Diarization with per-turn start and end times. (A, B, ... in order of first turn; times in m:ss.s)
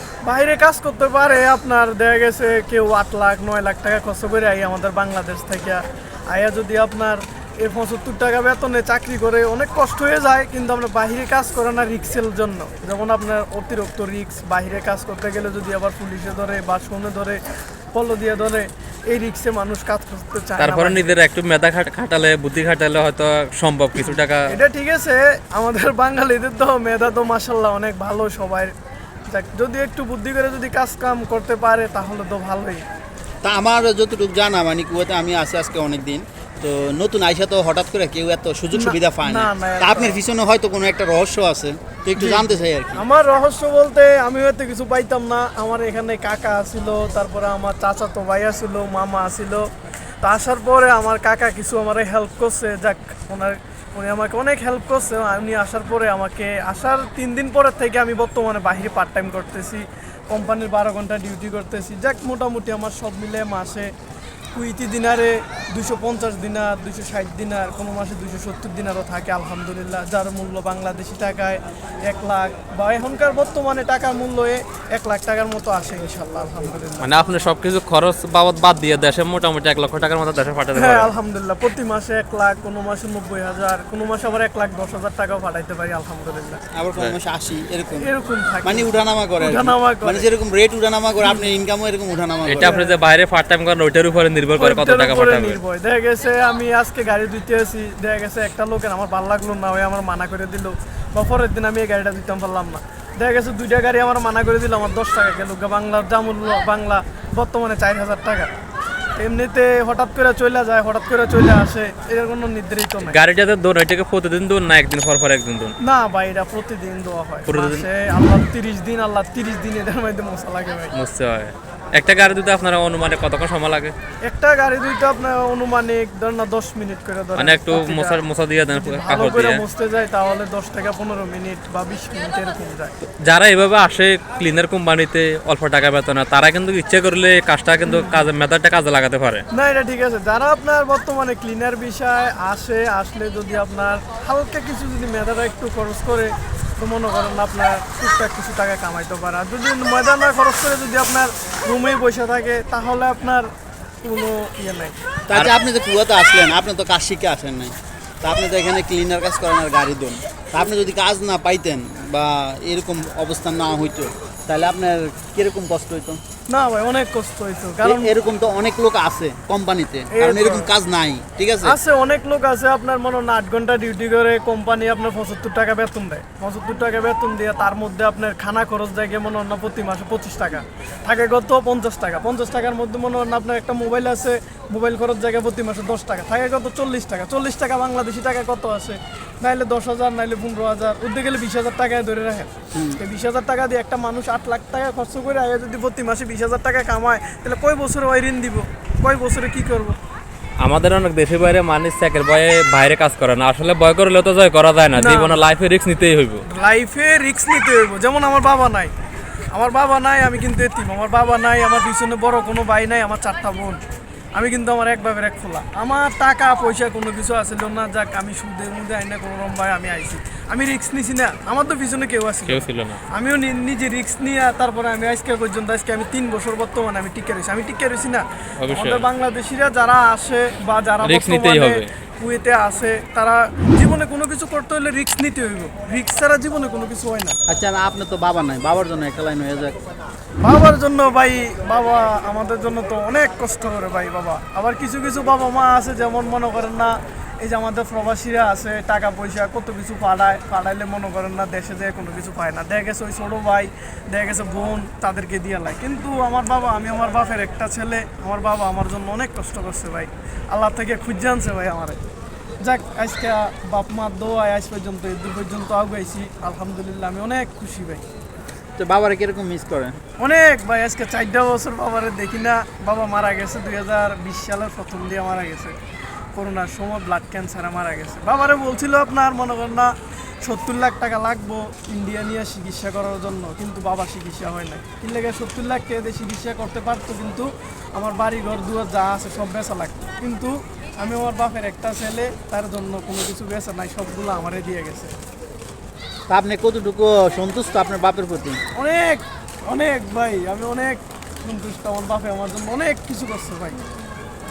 0:00.2-0:17.4 A
0:17.9-0:21.2 A
0:20.6-0:24.6 B
0:24.0-0:28.7 A
0:29.3-0:32.8 A
0:33.4-0:43.0 C
0:38.7-0:40.2 A
0:42.2-0:49.7 A
0:50.2-1:03.9 A
1:04.5-1:17.3 A
1:17.0-1:21.1 B
1:20.7-1:26.6 A
1:26.7-1:28.1 C
1:28.0-1:30.3 A
1:28.6-1:32.8 C
1:32.4-1:35.6 B
1:32.6-1:32.9 A
1:34.6-1:48.5 A
1:49.2-1:53.2 A
1:53.0-1:55.7 B
1:55.8-2:00.9 A
1:57.4-1:57.8 B
2:00.9-2:03.9 B
2:04.2-2:08.2 A
2:07.4-2:09.6 B
2:08.7-2:12.9 A
2:13.0-2:19.4 B
2:17.8-2:18.2 A
2:19.5-2:33.5 A
2:34.0-2:35.0 A
2:35.3-2:46.2 C
2:46.5-2:48.1 A
2:47.8-2:51.8 C
2:50.1-2:50.7 A
2:51.6-3:20.0 A
3:12.7-3:13.0 C
3:20.6-3:26.4 B
3:25.0-3:25.4 A
3:26.4-3:28.9 A
3:29.5-3:33.8 A
3:34.4-3:57.4 A
3:42.4-3:43.0 B
3:48.6-3:49.0 B
3:51.0-3:51.9 B
3:57.5-3:59.8 C
4:00.4-4:22.0 A
4:22.6-4:28.0 A
4:28.8-4:30.0 C
4:30.2-4:35.7 A
4:36.3-4:55.1 A
4:56.3-4:58.6 C
4:58.8-5:03.8 A